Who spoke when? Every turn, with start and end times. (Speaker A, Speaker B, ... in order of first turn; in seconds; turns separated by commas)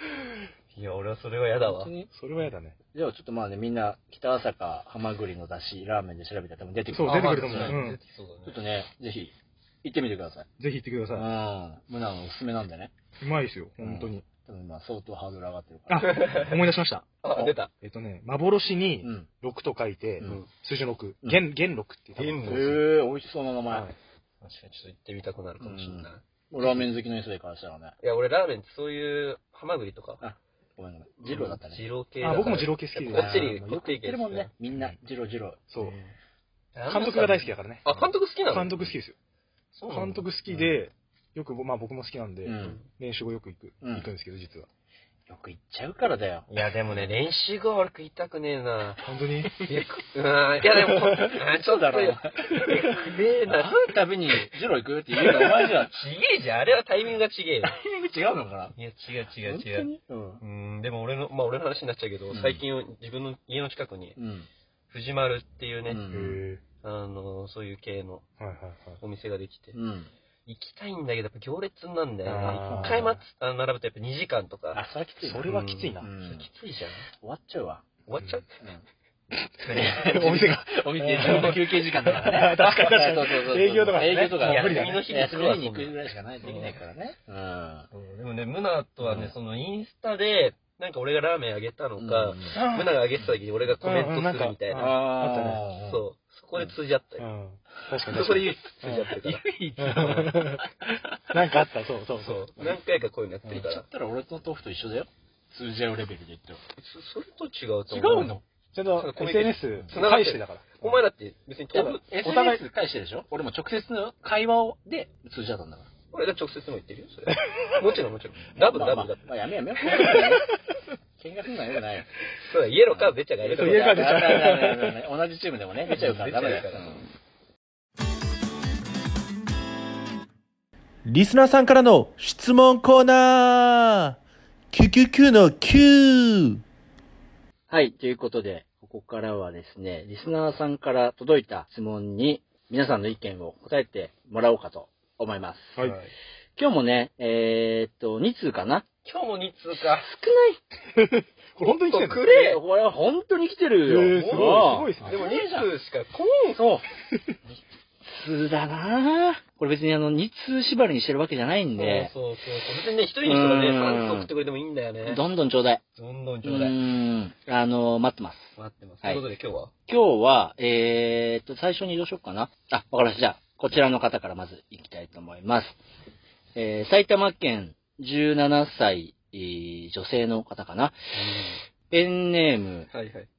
Speaker A: 0.7-1.9, Speaker B: 1.6-2.1, Speaker C: 2.1-2.8, Speaker B: 2.9-7.8, Speaker C: 6.9-8.0, Speaker A: 7.0-8.6, Speaker B: 8.4-10.5, Speaker C: 10.6-11.3, Speaker B: 11.1-12.9, Speaker C: 13.2-14.2, Speaker B: 13.8-16.4, Speaker C: 15.9-22.7, Speaker A: 16.0-16.6, Speaker A: 17.2-17.7, Speaker B: 19.0-19.3, Speaker A: 20.2-20.5, Speaker A: 22.2-22.8, Speaker B: 22.5-23.9, Speaker C: 23.7-23.9, Speaker A: 24.4-26.9, Speaker B: 25.6-28.0, Speaker A: 28.0-30.2, Speaker B: 30.2-32.6, Speaker A: 31.3-34.5, Speaker C: 32.2-33.8, Speaker B: 33.1-36.0, Speaker C: 35.7-36.0, Speaker A: 36.8-38.8, Speaker C: 36.9-39.2, Speaker A: 39.8-40.2, Speaker C: 39.9-44.7, Speaker B: 42.4-42.8, Speaker B: 43.8-44.1, Speaker B: 45.3-46.5, Speaker A: 46.5-49.0, Speaker C: 49.0-49.7, Speaker A: 49.6-54.4, Speaker C: 50.8-51.4, Speaker B: 51.5-52.7, Speaker C: 52.5-53.1, Speaker B: 53.5-55.9, Speaker A: 55.2-57.8, Speaker B: 57.6-58.8, Speaker A: 58.8-59.9, Speaker B: 59.4-60.4, Speaker A: 60.4-64.2, Speaker B: 62.3-62.6, Speaker B: 64.2-64.5, Speaker A: 64.9-66.0, Speaker B: 65.9-66.4, Speaker C: 66.1-66.6, Speaker A: 66.8-68.2, Speaker C: 68.4-69.0, Speaker A: 69.0-69.8, Speaker B: 69.7-70.1, Speaker A: 70.5-74.8, Speaker C: 72.3-73.2, Speaker B: 72.4-73.1, Speaker B: 74.7-77.8, Speaker C: 75.2-76.1, Speaker A: 75.5-77.0, Speaker A: 78.1-78.5, Speaker B: 78.6-78.8, Speaker C: 79.4-85.2, Speaker A: 79.7-80.4, Speaker B: 79.7-87.9, Speaker A: 81.1-81.6, Speaker A: 82.5-83.2, Speaker A: 84.0-86.8, Speaker A: 87.9-94.9, Speaker B: 89.0-89.3, Speaker B: 92.0-92.6, Speaker C: 92.5-92.9, Speaker C: 93.8-95.6, Speaker B: 94.7-96.0, Speaker A: 95.8-97.2, Speaker C: 97.2-100.7, Speaker A: 98.1-100.5, Speaker B: 99.2-100.1, Speaker C: 101.3-102.5, Speaker A: 102.2-103.9, Speaker B: 103.5-106.6, Speaker A: 106.8-108.4, Speaker B: 107.9-108.4, Speaker C: 108.7-111.0, Speaker A: 108.9-112.5, Speaker B: 111.7-115.9, Speaker C: 112.2-112.6, Speaker A: 116.1-119.3, Speaker C: 117.3-117.7, Speaker B: 118.5-120.5, Speaker A: 120.0-120.2, Speaker B: 121.2-122.1, Speaker A: 122.3-124.5, Speaker B: 122.9-127.0, Speaker C: 123.5-125.0, Speaker A: 125.9-127.1, Speaker D: 131.1-134.2, Speaker D: 134.7-136.6, Speaker B: 137.7-145.8, Speaker A: 145.8-146.1, Speaker B: 146.6-148.9, Speaker A: 149.1-150.1, Speaker B: 149.8-150.6, Speaker C: 150.9-152.3, Speaker A: 151.6-152.6, Speaker B: 152.2-155.7, Speaker C: 153.8-155.2, Speaker A: 154.1-156.6, Speaker B: 156.5-156.9, Speaker B: 157.5-162.1, Speaker A: 161.8-165.2, Speaker B: 163.2-164.3, Speaker B: 165.0-165.8, Speaker A: 166.0-166.8, Speaker B: 166.4-169.2, Speaker A: 168.6-169.7, Speaker B: 169.9-175.8, Speaker B: 176.6-181.1, Speaker A: 181.2-181.6, Speaker B: 181.9-182.9, Speaker A: 182.9-183.3